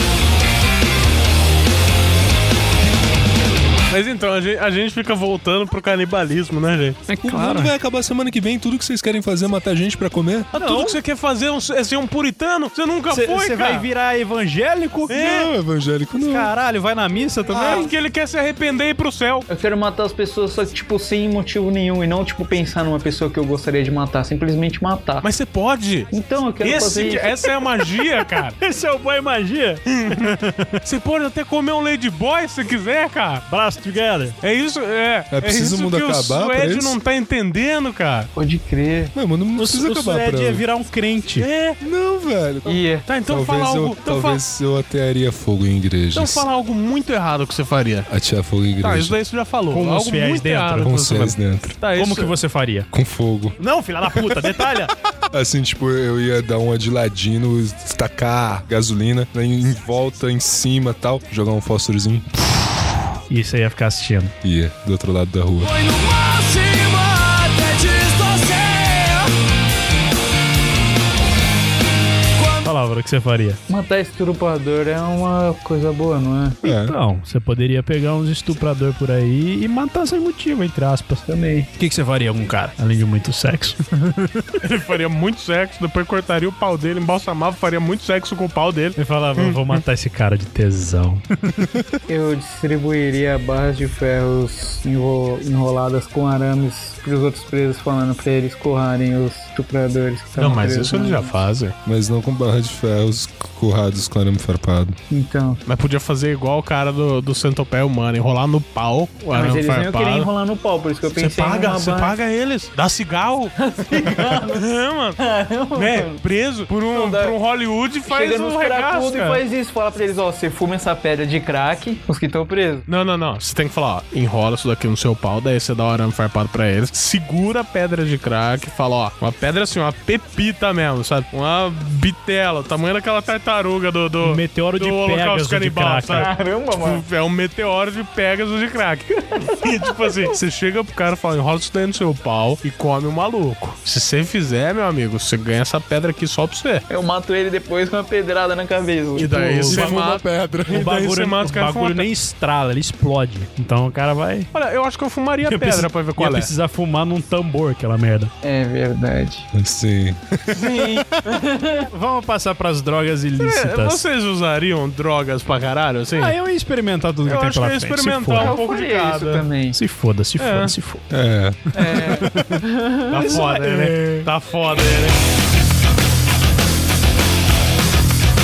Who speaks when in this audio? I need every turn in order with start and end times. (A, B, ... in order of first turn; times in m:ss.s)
0:03.9-0:07.0 A
0:07.1-0:07.7 B
0:07.2-0:10.5 C
0:10.5-0:13.8 A
0:10.5-0:11.0 B
0:13.1-0:15.2 B
0:15.1-0:16.5 C
0:15.1-0:15.5 A
0:16.3-0:17.9 B
0:17.5-0:17.9 C
0:17.5-0:19.5 A
0:19.5-0:25.3 D
0:25.2-0:28.6 A
0:26.1-0:27.3 D
0:28.6-0:30.8 B
0:29.9-0:33.4 A
0:33.5-0:34.4 B
0:34.4-0:38.3 A
0:35.3-0:37.0 C
0:38.4-0:39.1 D
0:39.1-0:40.6 C
0:39.6-0:41.5 B
0:41.4-0:41.8 A
0:41.8-0:46.5 C
0:42.6-0:43.1 D
0:43.1-0:44.4 A
0:46.1-0:48.1 A
0:48.1-0:49.2 C
0:48.8-0:52.3 A
0:49.7-0:51.0 B
0:50.8-0:51.8 C
0:52.0-0:52.9 B
0:52.9-1:02.3 C
0:53.6-0:54.9 B
1:03.3-1:04.3 B
1:04.4-1:05.7 C
1:05.6-1:09.3 E
1:12.4-1:12.7 E
1:12.6-1:13.6 B
1:13.7-1:16.6 D
1:16.6-1:17.0 C
1:16.7-1:24.5 B
1:21.3-1:21.7 D
1:24.6-1:29.8 A
1:29.0-1:31.7 B
1:32.1-1:41.4 D
1:40.4-1:41.7 A
1:41.8-1:45.0 C
1:45.1-1:45.6 D
1:45.7-1:50.3 A
1:49.3-1:52.2 D
1:51.1-1:53.6 A
1:53.6-1:54.6 D
1:54.1-1:55.2 A
1:55.2-1:56.2 D
1:55.7-1:59.4 A
1:56.9-1:57.4 D
1:58.1-2:02.8 D
2:02.9-2:26.8 A
2:14.2-2:16.3 B
2:16.1-2:17.0 D
2:19.3-2:20.3 D
2:26.9-2:29.7 D
2:29.2-2:32.1 A
2:29.3-2:29.9 B
2:29.7-2:30.9 C
2:30.7-2:34.5 B
2:34.5-2:36.5 A
2:35.5-2:38.3 B
2:38.4-2:39.5 D
2:39.5-2:41.1 C
2:40.5-2:41.9 D
2:41.9-2:44.0 B
2:43.4-2:46.4 A
2:46.2-2:48.6 B
2:47.2-2:49.5 A
2:48.4-2:49.8 D
2:49.7-2:51.1 B
2:50.4-2:50.7 A
2:51.1-2:51.6 C
2:51.7-2:54.0 D
2:51.8-2:52.6 B
2:53.1-2:55.2 A
2:53.3-2:54.3 B